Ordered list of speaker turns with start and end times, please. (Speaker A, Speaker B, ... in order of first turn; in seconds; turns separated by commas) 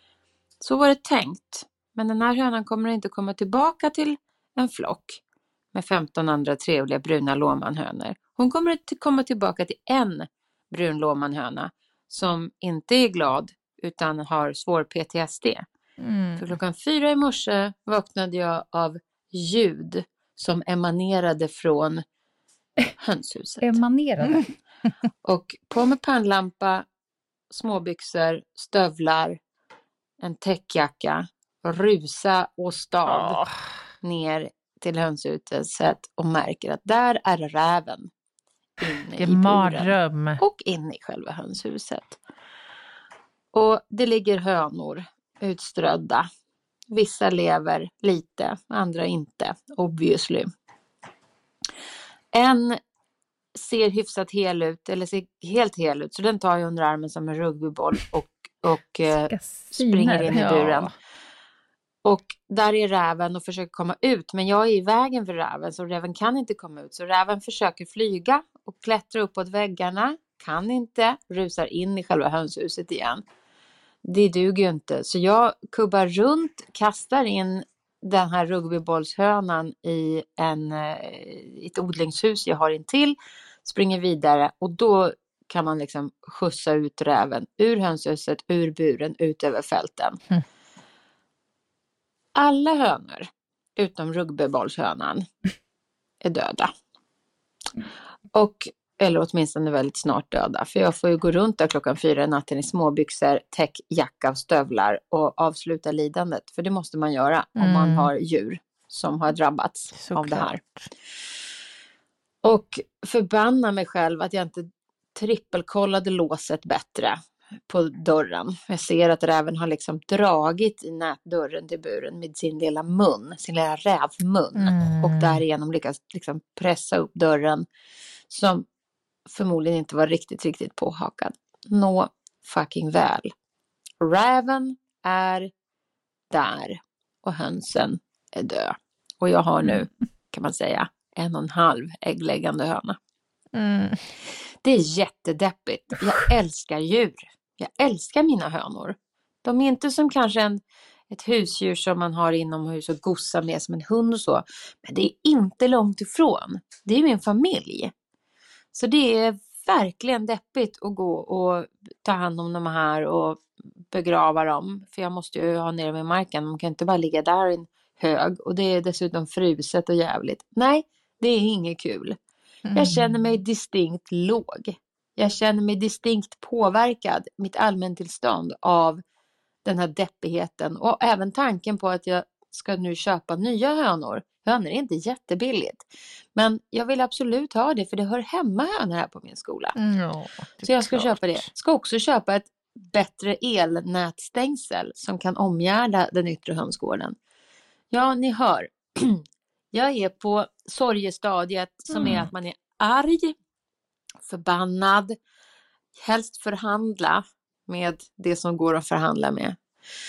Speaker A: 0.6-5.2, Speaker A: 5.7-15.6, Speaker B: 16.0-16.4, Speaker A: 16.4-22.0, Speaker A: 23.0-23.8, Speaker C: 23.6-24.5, Speaker A: 25.2-26.9, Speaker A: 27.5-29.4, Speaker A: 30.2-33.4, Speaker B: 33.0-33.5, Speaker A: 34.0-38.1, Speaker A: 38.8-42.2, Speaker B: 39.2-40.4, Speaker A: 43.5-46.2, Speaker A: 46.9-50.5, Speaker A: 52.3-52.8, Speaker A: 53.5-60.9, Speaker C: 59.1-60.4, Speaker B: 60.3-60.9, Speaker A: 62.0-73.2, Speaker A: 74.0-90.2, Speaker A: 92.3-95.2, Speaker A: 96.2-96.7, Speaker A: 98.3-110.6, Speaker B: 107.6-108.1, Speaker B: 109.9-110.9, Speaker A: 112.4-127.6, Speaker B: 124.6-125.4, Speaker A: 128.3-128.7, Speaker A: 129.3-133.3, Speaker A: 134.0-135.5, Speaker A: 136.3-143.0, Speaker B: 143.5-144.0, Speaker A: 144.6-157.9, Speaker A: 158.7-172.2, Speaker B: 172.7-173.1, Speaker A: 172.7-179.0, Speaker A: 179.6-185.8, Speaker A: 186.3-189.8, Speaker B: 189.8-191.5, Speaker A: 190.6-197.2, Speaker A: 197.9-203.3, Speaker C: 201.9-202.2, Speaker A: 204.2-205.2, Speaker A: 206.0-209.6